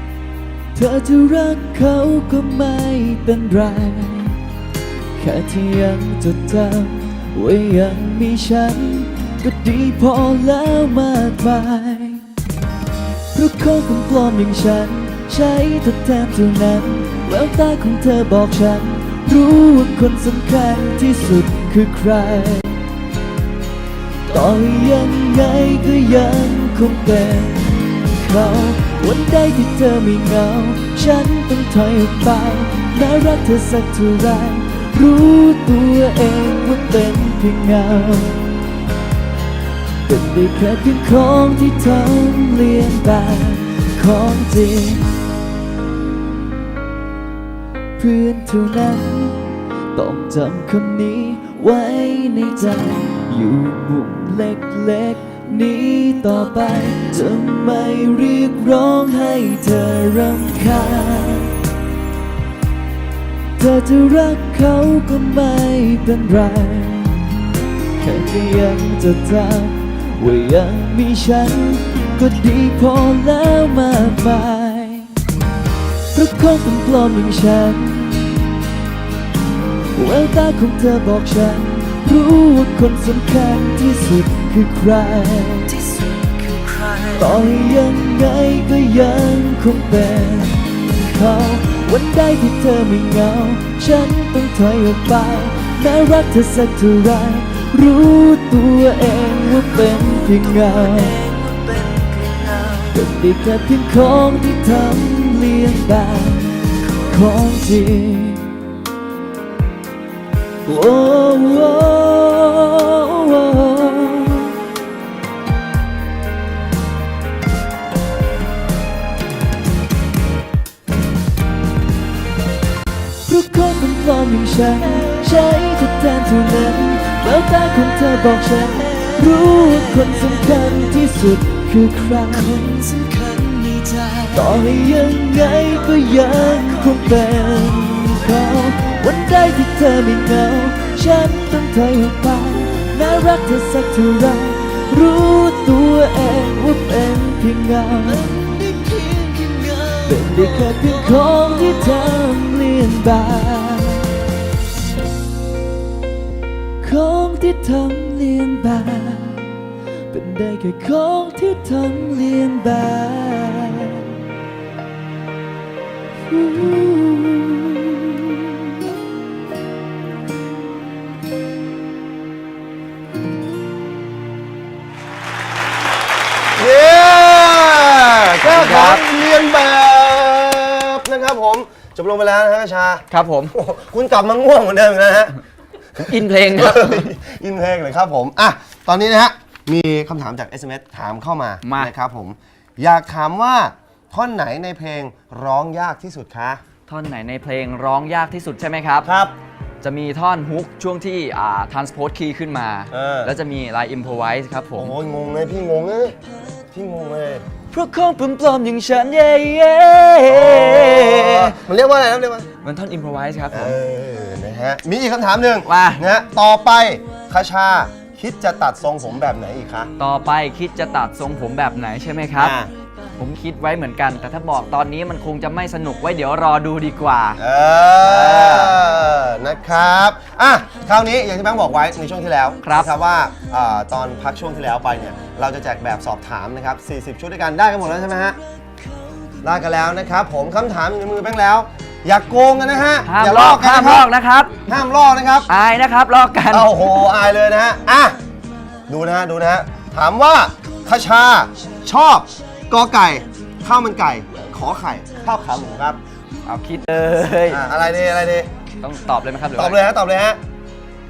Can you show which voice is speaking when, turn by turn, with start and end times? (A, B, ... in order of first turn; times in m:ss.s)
0:00.7-0:04.4 A
0:05.1-0:12.2 A
0:13.3-0:22.8 A
0:24.3-0:38.4 A
0:40.0-0:45.2 A
0:48.0-1:01.5 A
1:03.6-1:07.4 A
1:08.0-1:15.1 A
1:16.1-1:18.5 A
1:19.9-1:25.8 A
1:27.1-1:41.2 A
1:41.2-1:42.7 B
1:42.8-1:48.6 A
1:50.6-1:54.6 A
2:03.2-2:13.0 A
2:13.0-2:14.2 B
2:14.3-2:29.1 A
2:29.1-2:29.8 B
2:29.9-2:34.2 A
2:36.8-2:44.2 A
2:46.3-2:48.5 A
2:56.6-3:05.4 C
2:58.4-2:59.0 D
3:03.1-3:03.5 D
3:06.0-3:07.1 D
3:06.0-3:16.6 C
3:11.6-3:11.9 D
3:16.9-3:19.1 D
3:19.0-3:19.3 C
3:19.8-3:24.9 D
3:22.9-3:23.3 C
3:24.8-3:26.2 C
3:26.7-3:27.4 C
3:27.7-3:31.6 D
3:30.3-3:32.5 C
3:32.6-3:33.8 D
3:33.5-3:39.9 C
3:35.6-3:36.0 D
3:40.0-3:42.6 D
3:42.4-3:42.7 C
3:43.2-3:47.4 D
3:47.4-3:58.4 C
3:48.0-3:48.8 D
3:52.6-3:52.9 D
3:59.4-4:04.1 C
4:03.1-4:04.6 D
4:04.7-4:05.5 C
4:05.5-4:06.7 D
4:06.5-4:08.2 C
4:08.9-4:16.0 C
4:16.4-4:17.6 D
4:17.5-4:18.5 C
4:18.8-4:19.8 D
4:19.6-4:20.4 C